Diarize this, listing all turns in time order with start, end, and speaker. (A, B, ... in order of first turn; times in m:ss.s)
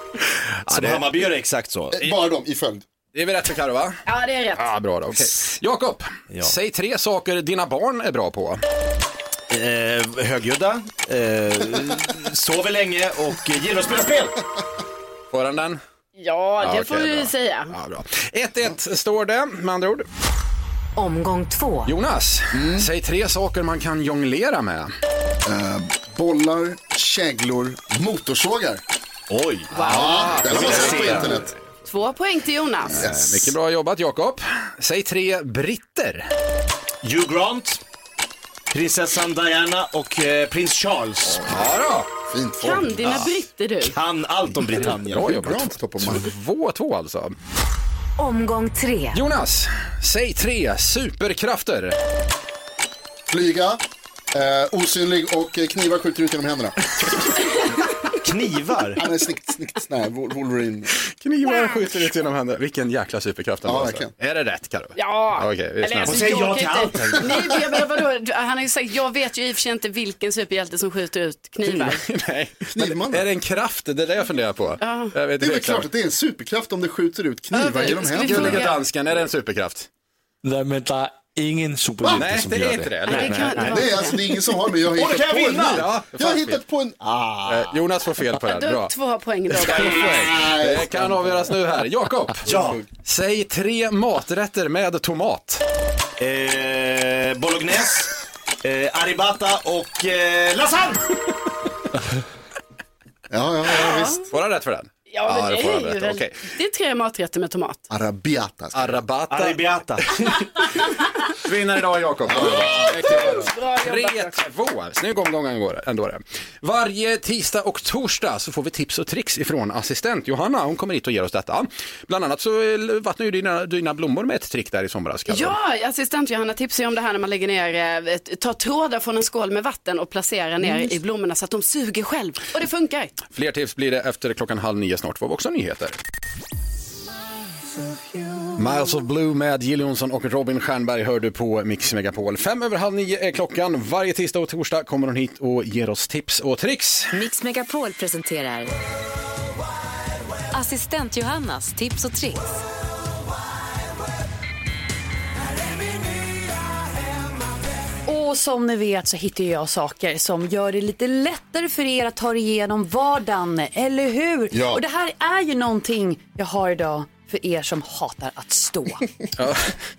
0:00.6-0:01.2 A
0:00.7-0:02.1 B
0:01.9-0:02.8 C
0:03.1-0:04.0 A
0:04.1-0:04.7 D
0:04.5-0:08.6 A
0:09.5-0:14.4 B
0:15.3-0:15.8 A
0:16.2-0:17.7 D
0:16.6-0:20.1 A
0:21.0-0:21.9 E
0:21.8-0:24.9 A
0:22.5-0:22.9 C
0:25.4-0:28.8 C
0:29.3-0:29.7 B
0:29.7-0:30.2 D
0:29.8-0:31.6 A
0:29.8-0:31.5 C
0:30.4-0:31.3 B
0:31.9-0:33.0 D
0:32.8-0:33.5 C
0:32.9-0:36.3 A
0:37.0-0:37.8 B
0:38.7-0:41.4 B
0:41.4-0:42.1 A
0:42.3-0:43.2 C
0:42.6-0:44.0 D
0:43.0-0:43.3 A
0:43.9-0:45.3 B
0:45.1-0:47.4 A
0:45.1-0:46.3 C
0:48.2-0:49.2 E
0:49.1-0:52.0 A
0:53.3-0:56.9 C
0:58.2-0:59.0 B
0:59.0-1:00.9 C
1:01.2-1:06.3 A
1:01.4-1:02.1 D
1:03.6-1:04.1 C
1:05.0-1:12.0 D
1:06.0-1:07.5 B
1:11.6-1:15.8 A
1:12.7-1:13.3 C
1:14.8-1:15.1 D
1:15.4-1:18.7 C
1:17.5-1:18.8 D
1:18.1-1:19.9 A
1:20.4-1:23.7 F
1:22.0-1:22.3 C
1:22.1-1:23.7 A
1:23.1-1:24.2 D
1:23.6-1:27.8 C
1:24.9-1:25.8 B
1:25.7-1:26.6 A
1:27.5-1:28.9 A
1:28.4-1:30.4 D
1:29.6-1:35.6 A
1:29.6-1:31.5 C
1:32.4-1:32.8 B
1:36.2-1:38.1 B
1:38.6-1:41.0 B
1:43.3-1:44.2 C
1:43.7-1:44.3 D
1:44.3-1:46.5 A
1:45.1-1:47.8 D
1:47.9-1:49.0 C
1:48.7-1:49.6 A
1:49.3-1:50.1 B
1:51.4-2:05.6 A
1:52.2-1:53.3 C
1:52.6-1:54.4 D
2:05.3-2:13.1 D
2:13.3-2:16.0 A
2:18.6-2:27.2 A
2:27.1-2:28.7 E
2:30.5-2:32.6 E
2:38.0-2:49.0 G
2:44.5-2:44.8 C
2:49.4-2:49.7 A